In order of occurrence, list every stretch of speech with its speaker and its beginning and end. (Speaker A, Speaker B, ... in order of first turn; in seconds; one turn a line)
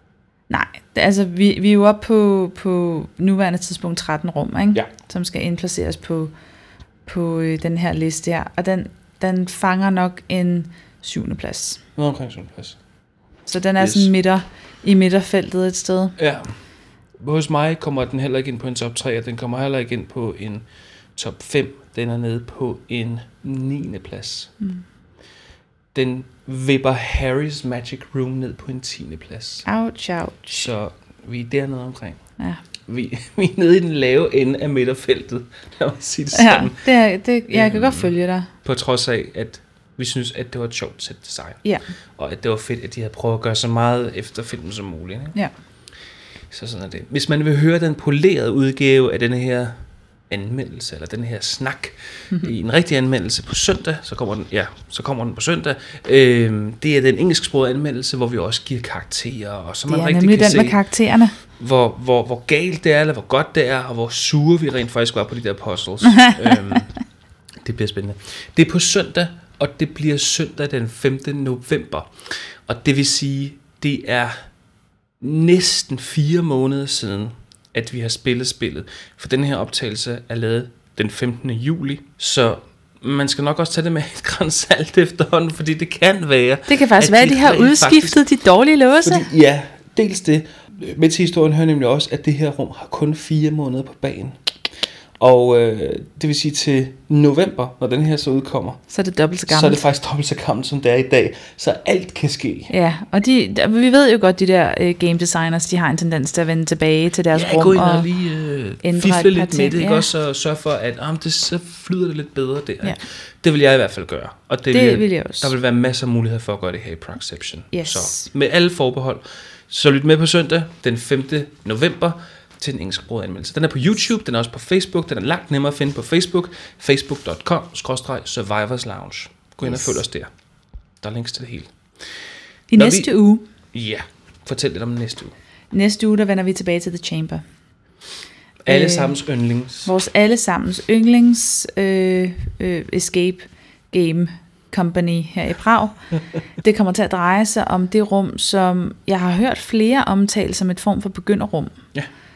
Speaker A: 0.5-6.3
Speaker A: 7.0-11.8
Speaker B: 12.0-12.8
Speaker A: 13.5-16.1
Speaker B: 13.8-14.1
Speaker B: 16.2-16.5
Speaker B: 17.2-20.6
Speaker B: 21.1-24.5
Speaker B: 25.9-29.6
Speaker A: 29.6-30.7
Speaker B: 30.5-32.2
Speaker B: 32.9-36.8
Speaker A: 36.3-38.5
Speaker B: 37.5-38.1
Speaker B: 38.6-41.6
Speaker B: 42.2-45.3
Speaker B: 46.5-49.8
Speaker B: 50.3-60.8
Speaker A: 59.9-61.4
Speaker B: 61.6-66.9
Speaker A: 66.0-66.5
Speaker B: 67.6-72.1
Speaker B: 72.7-74.4
Speaker B: 75.2-88.2
Speaker A: 86.7-89.3
Speaker B: 89.0-94.3
Speaker B: 95.2-98.8
Speaker A: 98.9-99.8
Speaker B: 99.5-102.7
Speaker A: 102.7-108.0
Speaker B: 107.3-130.3
Speaker A: 108.8-110.1
Speaker A: 114.7-115.5
Speaker A: 117.7-118.3
Speaker A: 129.6-130.0
Speaker B: 131.0-131.7
Speaker A: 132.7-133.4
Speaker B: 132.8-133.1
Speaker B: 133.7-135.3
Speaker A: 135.7-137.4
Speaker B: 138.7-139.9
Speaker A: 138.7-139.2
Speaker A: 139.8-145.9
Speaker A: 146.6-151.7